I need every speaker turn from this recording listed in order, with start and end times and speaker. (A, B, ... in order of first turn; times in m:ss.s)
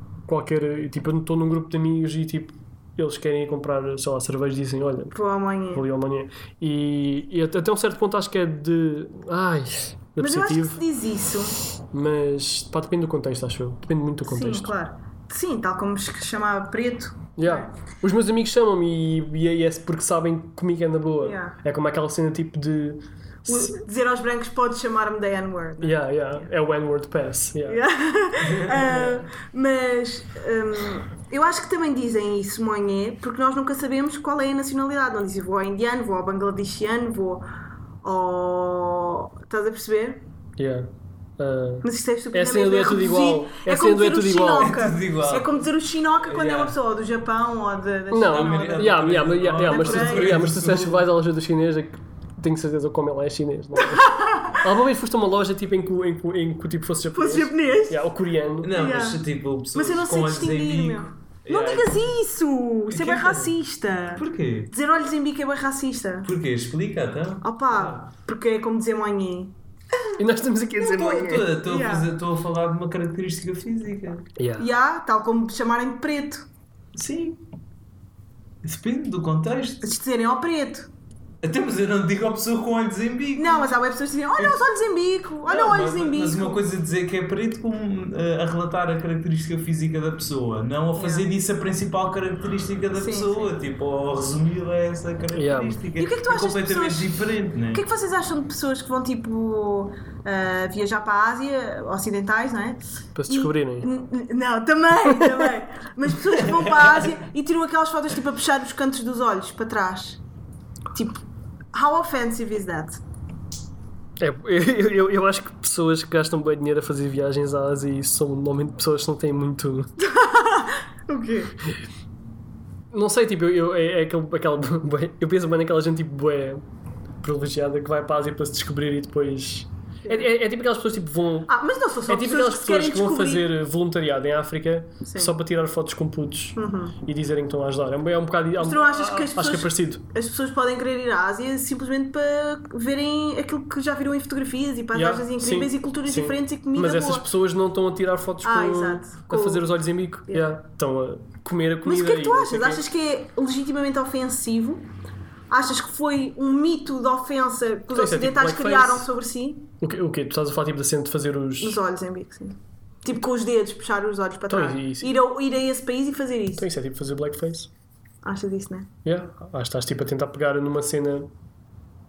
0:00.3-0:05.1 A
0:05.1-0:05.8 B
0:05.7-0:10.8 A
0:10.2-0:11.6 B
0:11.9-0:14.7 A
0:14.2-0:17.7 B
0:17.4-0:23.8 A
0:21.2-0:21.6 B
0:23.5-0:26.0 B
0:25.8-0:27.8 A
0:27.7-0:37.4 B
0:28.4-0:29.0 C
0:38.0-0:40.2 B
0:40.6-0:44.8 A
0:41.8-0:50.4 B
0:44.6-0:45.6 C
0:46.3-0:46.8 C
0:48.1-0:58.8 A
0:48.3-0:51.0 C
0:53.8-0:54.6 B
0:57.1-0:58.0 B
0:58.6-1:02.1 C
0:58.7-1:06.3 B
1:02.9-1:03.5 C
1:04.2-1:04.7 C
1:06.2-1:08.0 C
1:07.4-1:10.2 B
1:10.2-1:11.5 A
1:10.8-1:14.3 C
1:10.8-1:12.1 B
1:14.4-1:14.7 A
1:14.6-1:16.5 B
1:16.9-1:17.4 C
1:18.6-1:19.8 C
1:19.8-1:20.9 B
1:21.4-1:23.8 C
1:23.4-1:26.6 B
1:24.4-1:24.8 C
1:25.4-1:37.8 C
1:31.0-1:31.3 B
1:33.0-1:33.5 B
1:35.3-1:35.8 A
1:36.0-1:37.2 B
1:37.7-1:50.2 B
1:43.1-1:43.9 A
1:45.1-1:45.5 A
1:46.4-1:47.1 C
1:50.9-1:51.2 B
1:51.7-1:53.0 B
1:54.2-2:00.0 A
2:00.0-2:01.6 B
2:02.9-2:06.6 A
2:07.2-2:11.5 A
2:10.0-2:10.3 B
2:11.5-2:13.5 B
2:12.1-2:20.0 A
2:15.0-2:15.3 B
2:16.5-2:17.0 B
2:18.6-2:27.2 B
2:24.9-2:32.8 A
2:28.4-2:29.7 B
2:30.3-2:30.6 B
2:31.8-2:34.9 B
2:35.5-2:39.7 B
2:37.9-2:39.1 A
2:39.8-2:41.8 A
2:41.6-2:46.7 B
2:44.5-2:45.2 A
2:46.6-2:47.7 A
2:48.2-2:48.9 B
2:49.0-2:51.3 A